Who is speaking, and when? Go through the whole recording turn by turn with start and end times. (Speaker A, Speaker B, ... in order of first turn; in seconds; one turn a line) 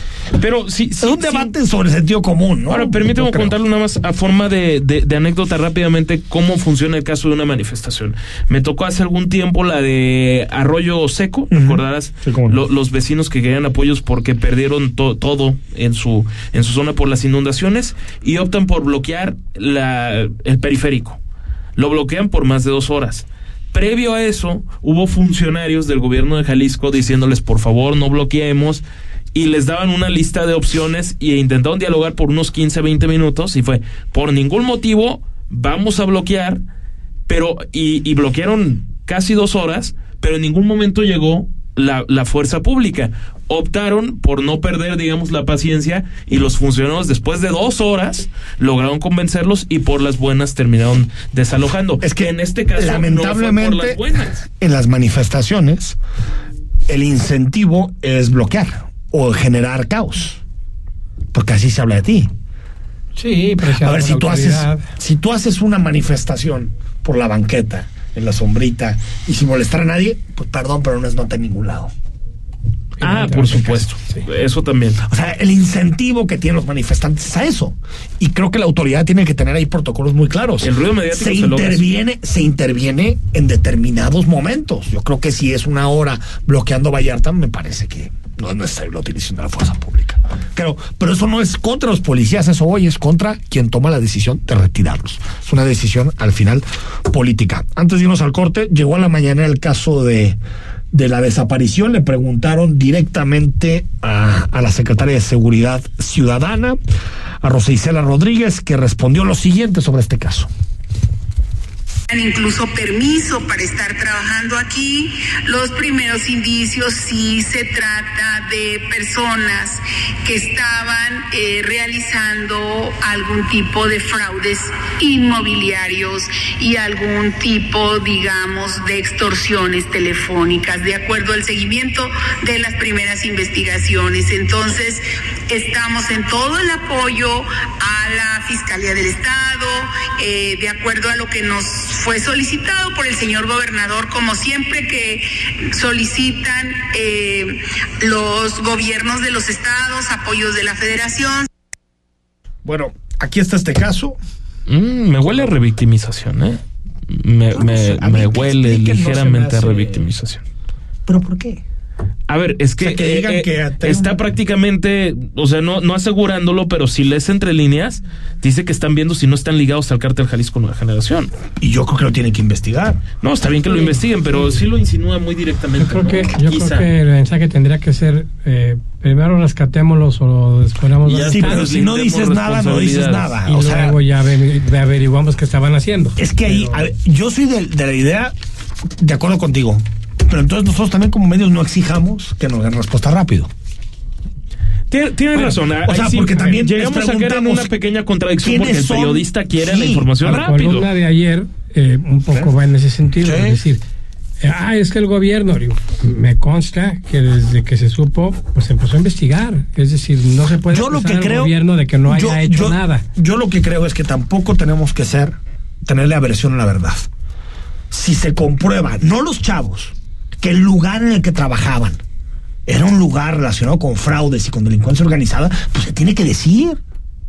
Speaker A: 0.4-1.5
Speaker B: 1.0-3.6
Speaker A: 2.7-21.2
Speaker B: 11.5-12.6
Speaker A: 21.8-36.6
Speaker A: 37.3-54.4
Speaker B: 52.0-56.0
Speaker B: 56.9-60.4
Speaker B: 61.3-62.3
Speaker C: 63.2-64.8
Speaker B: 63.7-71.9
Speaker A: 73.0-75.0
Speaker C: 73.0-73.6
Speaker B: 73.2-73.8
Speaker B: 75.1-100.4
Speaker A: 80.6-81.9
Speaker B: 100.9-106.8
Speaker B: 107.4-110.5
Speaker D: 112.1-151.5
Speaker B: 152.7-154.2
Speaker A: 154.7-156.6
Speaker B: 155.2-155.5
Speaker A: 157.2-160.4
Speaker B: 157.5-160.1
Speaker B: 161.1-161.6
Speaker A: 162.3-171.3
Speaker B: 162.8-164.2
Speaker B: 171.6-173.0
Speaker A: 173.2-176.8
Speaker C: 175.8-181.7
Speaker A: 181.1-183.3
Speaker B: 181.3-184.0
Speaker C: 183.5-186.8
Speaker B: 186.2-188.3
Speaker B: 189.0-193.5
Speaker A: 194.9-200.9
Speaker B: 195.3-197.7
Speaker B: 198.4-200.3
Speaker C: 200.2-203.8
Speaker B: 203.2-203.6
Speaker C: 204.4-213.1
Speaker B: 210.7-217.1
Speaker B: 217.9-222.0
Speaker B: 222.7-226.8